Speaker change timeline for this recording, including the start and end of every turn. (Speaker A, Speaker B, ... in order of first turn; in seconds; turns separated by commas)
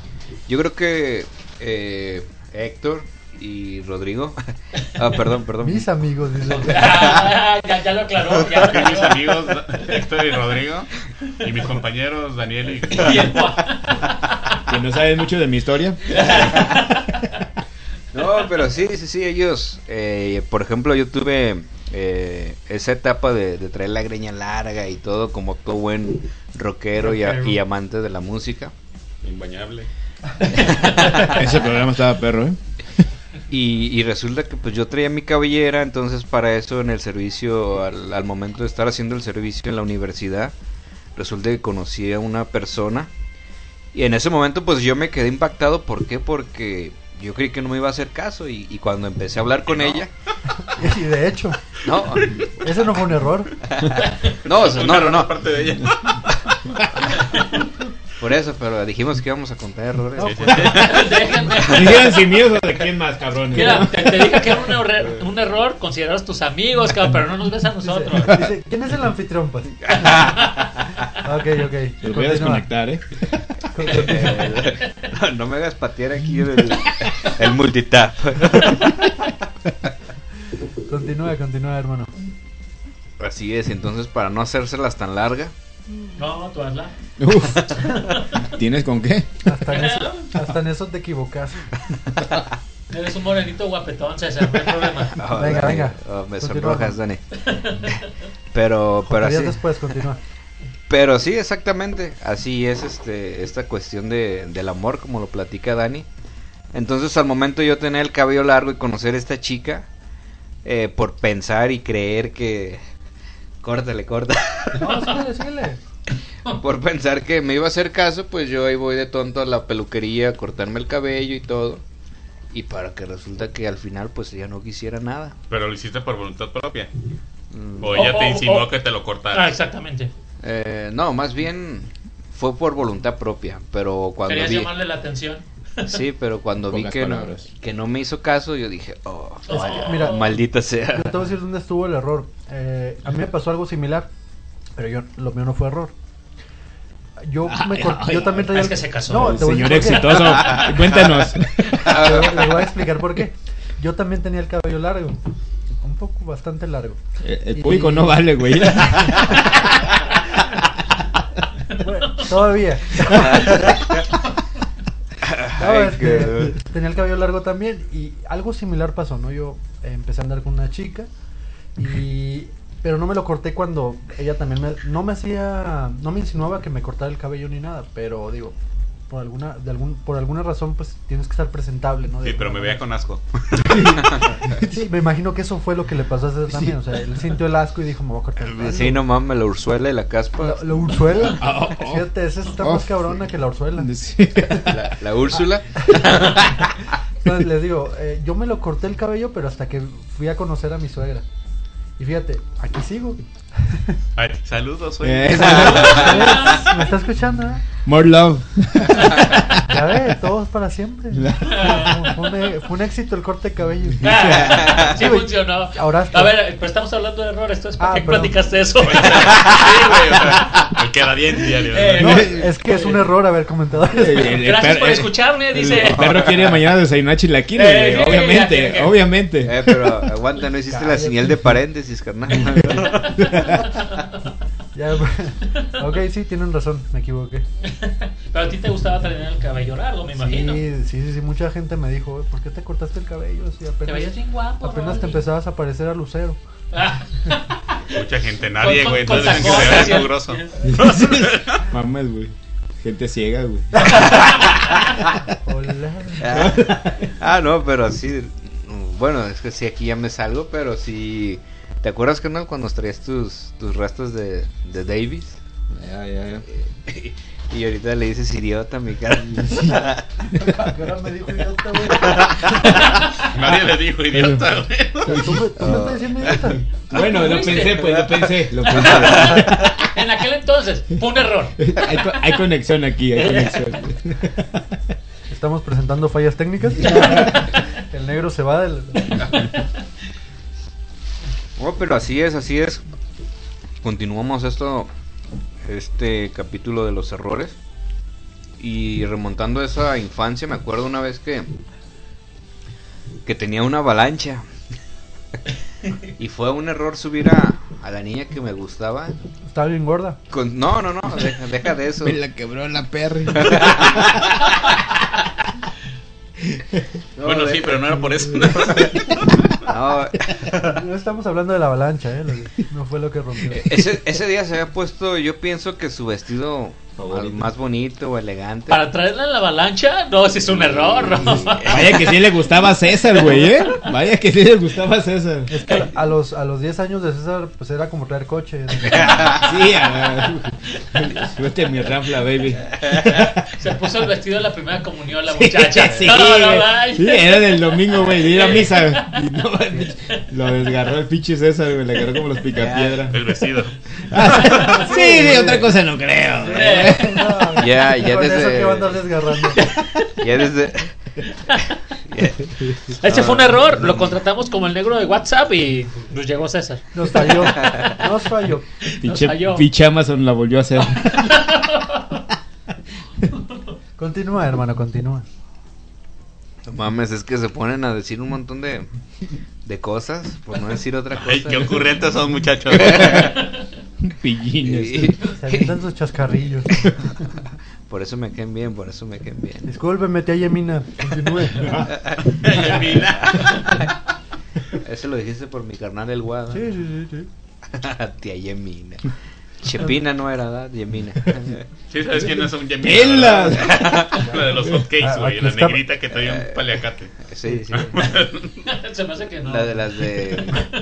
Speaker A: 0.5-5.9, Speaker B: 5.6-7.2, Speaker C: 6.4-9.5, Speaker D: 8.6-13.5, Speaker C: 12.9-14.0, Speaker E: 14.7-16.3, Speaker C: 16.1-17.3, Speaker A: 18.1-28.7, Speaker C: 27.0-27.6, Speaker D: 29.2-29.9, Speaker A: 30.5-31.4, Speaker E: 31.2-32.6, Speaker A: 33.5-40.5, Speaker A: 41.2-43.1, Speaker A: 43.9-50.1, Speaker D: 49.7-50.0, Speaker B: 50.7-51.6, Speaker A: 51.8-52.4, Speaker B: 52.6-53.6, Speaker A: 54.4-55.3, Speaker D: 54.5-56.5, Speaker A: 58.2-60.9, Speaker B: 60.2-60.8, Speaker D: 60.2-61.1, Speaker C: 60.6-62.1, Speaker E: 61.6-64.6, Speaker C: 63.5-68.5, Speaker B: 67.8-70.2, Speaker A: 70.0-70.5, Speaker B: 71.2-72.7, Speaker E: 72.0-73.0, Speaker B: 73.7-74.5, Speaker A: 73.8-79.1, Speaker B: 80.9-82.1, Speaker A: 83.2-85.5, Speaker C: 86.2-86.9, Speaker E: 87.2-87.8, Speaker E: 88.4-89.3, Speaker B: 89.5-91.7, Speaker C: 89.7-90.3, Speaker C: 92.9-95.2, Speaker A: 95.1-97.2, Speaker B: 95.3-97.0, Speaker C: 97.5-98.0, Speaker A: 98.5-99.6, Speaker B: 99.1-100.2, Speaker A: 100.9-106.1, Speaker A: 106.7-109.9, Speaker A: 110.7-112.8, Speaker A: 113.6-114.8, Speaker B: 114.7-115.8, Speaker A: 116.5-121.8, Speaker A: 122.5-125.4, Speaker D: 125.5-126.9, Speaker A: 127.5-128.1, Speaker D: 127.8-129.5, Speaker C: 127.9-128.7, Speaker C: 129.3-130.1, Speaker A: 130.4-134.7, Speaker C: 134.3-136.0, Speaker A: 135.9-141.2, Speaker E: 136.7-137.5, Speaker C: 139.5-140.2, Speaker B: 139.5-140.2, Speaker B: 140.9-144.1, Speaker B: 144.8-145.9, Speaker B: 147.2-150.4, Speaker E: 147.4-152.1, Speaker C: 148.5-149.4, Speaker B: 151.8-155.2, Speaker A: 151.9-152.4, Speaker B: 155.8-157.0, Speaker E: 157.2-159.4, Speaker B: 157.5-158.2, Speaker B: 161.8-163.9, Speaker A: 165.2-166.6, Speaker B: 165.6-171.1, Speaker B: 171.8-178.6, Speaker B: 179.1-182.8, Speaker D: 182.2-184.5, Speaker E: 183.6-184.7, Speaker B: 184.6-189.0, Speaker E: 186.5-186.8, Speaker A: 188.4-190.9, Speaker B: 190.4-193.9, Speaker E: 191.4-193.2, Speaker E: 193.8-194.9, Speaker A: 194.7-196.8, Speaker B: 197.2-201.2, Speaker B: 202.0-204.0, Speaker D: 204.2-206.3, Speaker E: 205.0-206.3, Speaker B: 205.3-207.6, Speaker C: 205.7-206.7, Speaker E: 207.8-209.6, Speaker B: 209.7-216.4, Speaker E: 211.1-211.9, Speaker C: 211.5-212.1, Speaker E: 214.0-214.9, Speaker C: 214.0-220.4, Speaker B: 217.8-218.4, Speaker D: 218.8-222.1, Speaker C: 221.7-222.9, Speaker B: 222.0-224.4, Speaker E: 222.0-222.4, Speaker E: 223.9-230.0, Speaker C: 224.3-226.2, Speaker A: 225.8-226.6, Speaker C: 227.6-228.9, Speaker A: 229.4-233.1, Speaker B: 230.7-231.3, Speaker C: 232.9-233.2, Speaker E: 233.2-233.6, Speaker B: 234.8-237.4, Speaker C: 237.7-240.6, Speaker B: 240.1-246.4, Speaker C: 243.9-245.3, Speaker C: 246.7-247.5, Speaker D: 247.9-251.7, Speaker C: 248.6-250.7, Speaker E: 250.7-254.1, Speaker B: 255.4-256.3, Speaker A: 256.2-265.4, Speaker E: 256.2-257.1, Speaker E: 265.7-266.4, Speaker A: 266.5-270.0, Speaker E: 269.5-269.8, Speaker B: 270.3-272.6, Speaker D: 273.3-275.3, Speaker E: 274.1-275.9, Speaker B: 275.1-276.6, Speaker A: 275.6-276.5, Speaker E: 276.9-279.9, Speaker C: 276.9-281.6, Speaker A: 278.8-279.3, Speaker E: 281.6-284.6, Speaker B: 285.3-289.1, Speaker C: 289.1-289.6, Speaker A: 291.6-292.8, Speaker A: 293.8-294.9, Speaker A: 295.6-297.6, Speaker A: 298.6-301.5, Speaker A: 303.3-304.5, Speaker A: 306.2-309.2, Speaker B: 309.5-310.2, Speaker A: 310.3-312.2, Speaker E: 312.0-314.4, Speaker A: 313.3-314.2, Speaker E: 316.5-316.8, Speaker A: 317.2-317.9, Speaker D: 317.2-319.5, Speaker A: 319.6-320.3, Speaker B: 320.6-323.8, Speaker A: 323.5-328.9, Speaker E: 327.0-327.5, Speaker C: 328.7-331.9, Speaker A: 330.4-331.9, Speaker E: 331.4-335.5, Speaker B: 335.5-339.4, Speaker E: 339.3-343.4, Speaker C: 343.6-347.4, Speaker E: 345.3-353.2, Speaker C: 348.1-349.1, Speaker A: 352.6-353.1, Speaker D: 353.1-353.8, Speaker E: 354.1-357.2, Speaker B: 354.4-355.7, Speaker B: 356.4-359.6, Speaker C: 356.5-357.1, Speaker A: 357.6-359.1, Speaker A: 360.1-360.9, Speaker A: 362.1-364.2, Speaker C: 363.0-367.7, Speaker B: 366.9-368.6, Speaker A: 367.6-367.9, Speaker C: 368.9-369.7, Speaker E: 369.0-371.5, Speaker C: 371.0-372.1, Speaker B: 374.0-375.2, Speaker A: 376.7-378.9, Speaker A: 379.6-382.0, Speaker D: 381.1-383.4, Speaker A: 382.7-383.3, Speaker E: 384.0-385.2, Speaker A: 384.6-385.7, Speaker B: 385.4-386.8, Speaker A: 387.9-389.7, Speaker B: 389.7-391.9, Speaker E: 391.5-391.9, Speaker D: 392.2-393.9, Speaker A: 394.8-396.7, Speaker B: 396.5-397.3, Speaker A: 397.7-401.6, Speaker D: 401.9-407.1, Speaker E: 402.2-403.9, Speaker A: 403.5-404.2, Speaker E: 404.6-405.8, Speaker B: 405.0-405.7, Speaker A: 406.1-408.0, Speaker D: 407.7-408.6, Speaker C: 408.7-410.7, Speaker A: 409.4-410.7